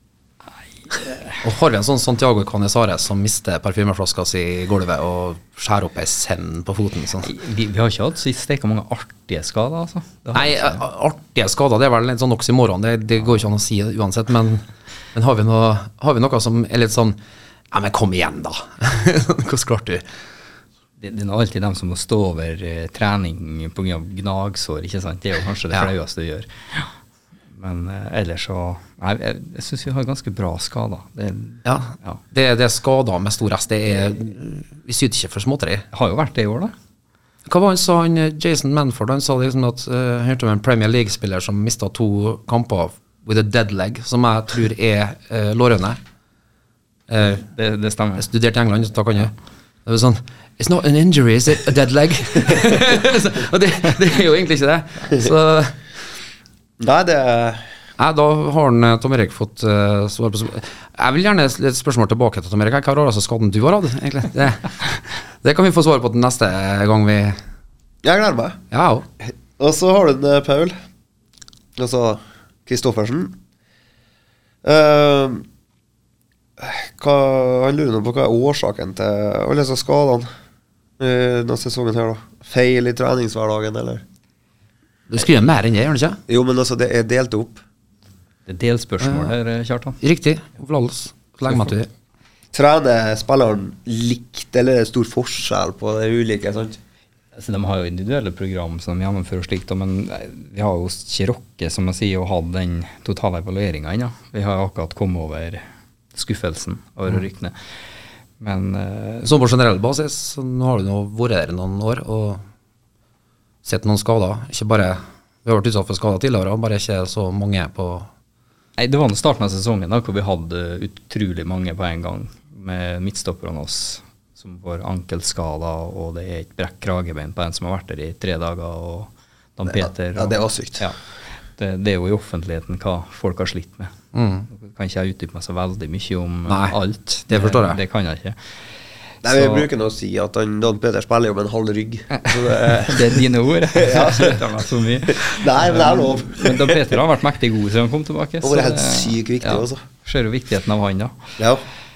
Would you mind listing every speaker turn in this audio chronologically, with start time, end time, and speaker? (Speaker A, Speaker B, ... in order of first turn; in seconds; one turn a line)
Speaker A: 0.9-1.3
Speaker B: 1.4-7.3
Speaker A: 7.2-10.8
Speaker B: 10.3-17.2
Speaker B: 17.7-20.0
Speaker A: 21.0-26.9
Speaker A: 27.5-32.2
Speaker B: 31.6-35.8
Speaker A: 35.9-36.7
Speaker B: 37.5-46.0
Speaker B: 47.1-47.4
Speaker A: 47.4-48.3
Speaker B: 48.2-49.3
Speaker B: 49.8-55.8
Speaker C: 56.8-57.6
Speaker B: 58.0-67.4
Speaker C: 68.0-68.6
Speaker B: 68.7-69.0
Speaker C: 69.2-70.8
Speaker C: 71.8-73.4
Speaker C: 74.6-75.4
Speaker C: 76.6-80.3
Speaker C: 81.0-84.0
Speaker B: 85.1-86.2
Speaker C: 86.3-87.6
Speaker A: 88.5-90.0
Speaker B: 89.0-89.3
Speaker B: 90.0-91.9
Speaker C: 92.5-96.8
Speaker A: 97.3-105.6
Speaker A: 106.1-107.5
Speaker A: 108.4-109.3
Speaker B: 109.2-112.4
Speaker B: 113.6-118.1
Speaker A: 118.8-131.0
Speaker C: 129.7-130.9
Speaker A: 131.6-133.9
Speaker B: 134.1-134.4
Speaker A: 134.5-138.4
Speaker B: 136.5-136.8
Speaker B: 137.3-137.8
Speaker C: 139.2-144.4
Speaker A: 139.2-139.7
Speaker A: 142.1-151.3
Speaker C: 145.2-146.9
Speaker C: 148.4-149.8
Speaker C: 151.4-151.6